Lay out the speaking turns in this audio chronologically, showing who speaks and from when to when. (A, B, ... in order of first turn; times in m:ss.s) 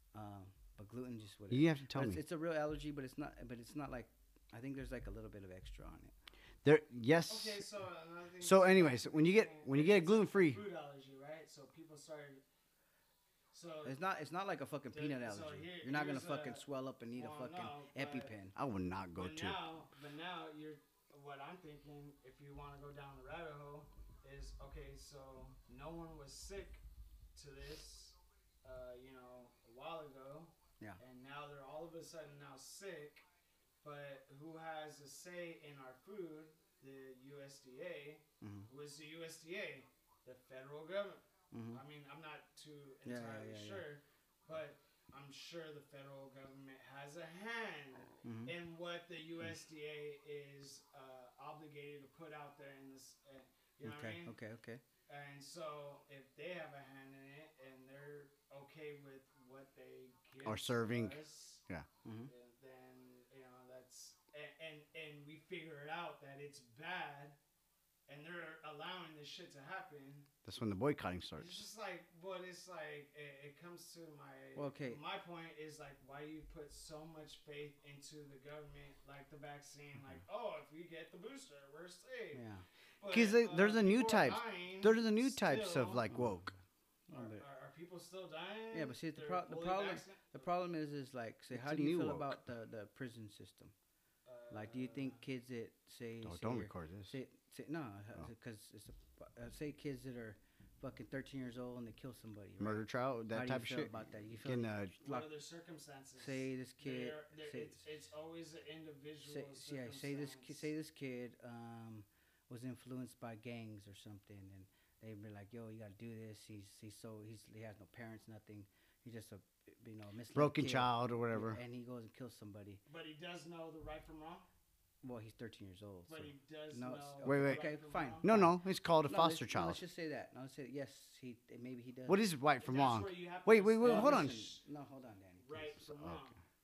0:00.1-0:06.1 A
0:01.5-0:02.2 B
0:06.6-0:07.6 B
0:07.3-0:12.4 C
0:08.4-0:10.6 B
0:13.5-0:14.0 C
0:13.8-0:18.6 A
0:14.9-0:16.6 C
0:17.2-0:18.3 C
0:18.6-0:19.6 B
0:19.2-0:26.8 C
0:27.4-0:33.2 C
0:33.8-0:54.3 C
0:38.4-0:38.7 A
0:41.5-0:41.8 A
0:43.0-0:43.8 A
0:48.2-0:48.5 A
0:53.8-0:54.8 A
0:55.1-1:01.6 C
1:00.4-1:01.9 B
1:02.0-1:02.3 A
1:02.3-1:07.4 C
1:08.1-1:10.3 C
1:10.4-1:11.6 B
1:11.4-1:22.4 C
1:14.6-1:15.0 A
1:22.3-1:22.6 A
1:23.0-1:26.0 C
1:23.1-1:26.5 B
1:26.1-1:26.4 A
1:27.1-1:27.4 A
1:27.1-1:30.5 C
1:28.7-1:33.7 A
1:31.5-1:32.4 B
1:34.2-1:35.2 C
1:34.5-1:45.3 A
1:36.2-1:37.1 B
1:42.6-1:45.0 B
1:45.0-1:50.7 C
1:46.2-1:47.9 A
1:49.2-2:02.8 A
2:00.3-2:01.6 B
2:02.9-2:04.5 C
2:05.0-2:08.5 A
2:06.1-2:08.4 C
2:07.2-2:07.6 B
2:08.2-2:09.8 B
2:09.1-2:12.2 A
2:12.1-2:14.5 B
2:12.6-2:14.6 C
2:13.8-2:15.7 A
2:15.4-2:16.4 C
2:15.8-2:16.3 B